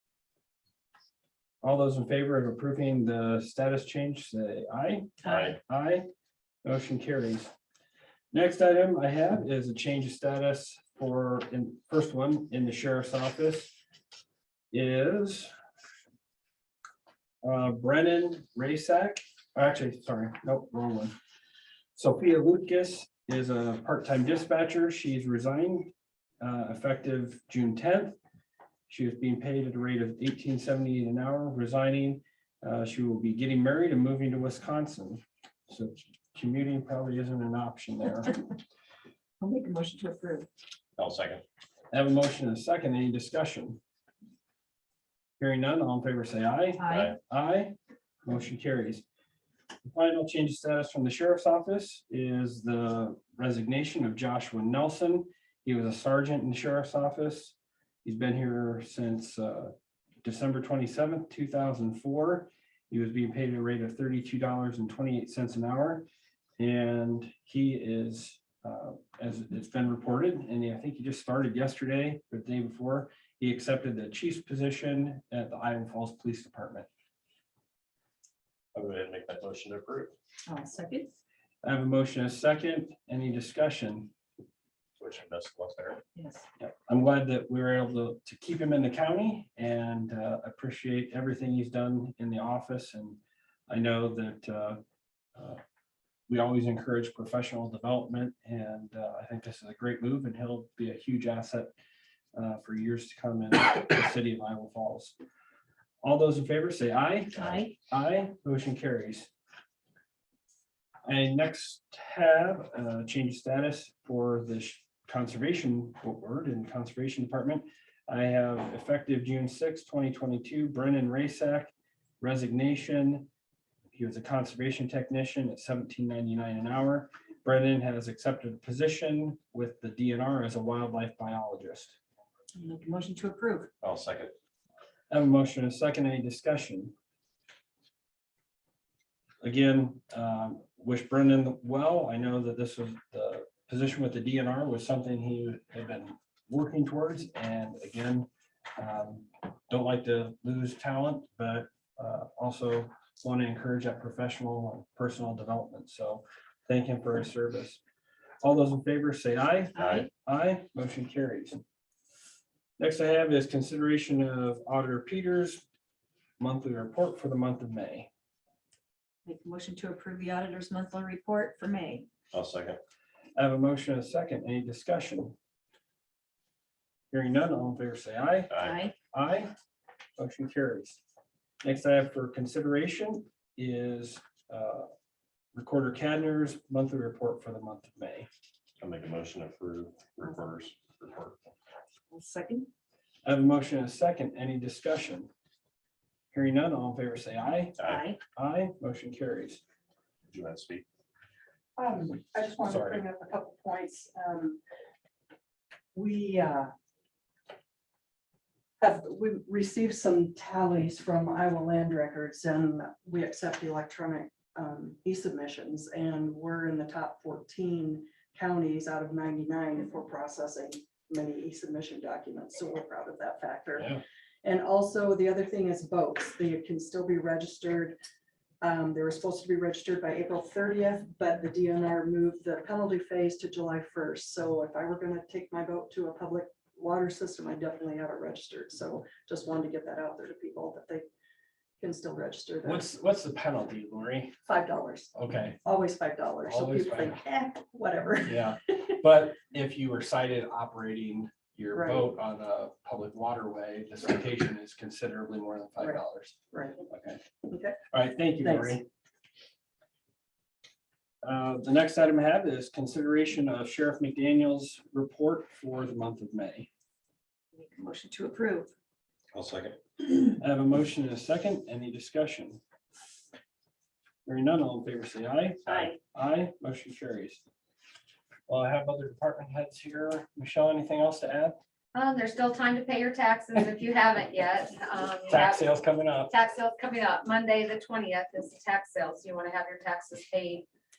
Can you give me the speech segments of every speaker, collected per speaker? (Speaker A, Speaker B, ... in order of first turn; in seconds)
Speaker A: 1.6-6.1, 6.6-7.5, 8.3-13.7, 14.7-15.5, 17.4-21.1, 21.9-28.2, 28.9-38.4, 41.9-43.8, 45.4-49.0, 49.8-66.1, 66.6-76.9, 81.6-84.1, 86.6-94.8, 95.3-95.6, 96.3-101.7, 102.3-105.1, 106.0-109.3, 111.0-123.3, 123.9-132.0, 135.1-136.9, 139.4-157.8, 158.4-161.6, 162.8-165.6, 166.4-168.1, 173.3-175.3, 177.1-178.5, 179.1-179.5, 180.2-181.0, 181.6-184.9, 185.5-188.3, 193.2-195.3, 196.3-197.8, 198.3-199.6, 202.6-203.0, 223.8-224.0, 242.6-244.3, 245.1-245.6, 246.4-247.2, 248.2-257.2, 257.9-258.9, 261.2-266.7, 270.3-272.6, 274.2-277.4, 278.5-281.6, 285.3-286.3
Speaker B: 5.2-5.6, 41.0-41.4, 46.9-47.1, 78.7-80.1, 85.0-86.0, 133.8-134.3, 159.7-160.1, 172.3-172.8, 178.5-178.8, 188.8-191.4, 197.8-198.1, 200.3-200.8, 269.3-269.8, 275.7-275.9
Speaker C: 39.4-40.5, 46.8-47.1, 80.5-81.2, 86.1-86.5, 107.4-107.7, 132.5-133.7, 159.8-160.1, 169.2-172.1, 178.6-178.9, 192.1-192.7, 197.8-198.2, 267.5-268.7, 275.7-275.9
Speaker D: 201.8-204.6, 205.9-206.7, 208.8-227.9, 228.6-241.1, 241.8-242.9, 244.4-245.1, 245.6-248.5, 251.7-252.1, 256.5-256.8, 257.5-257.8, 258.4-258.8
Speaker E: 281.9-285.7, 286.3-290.6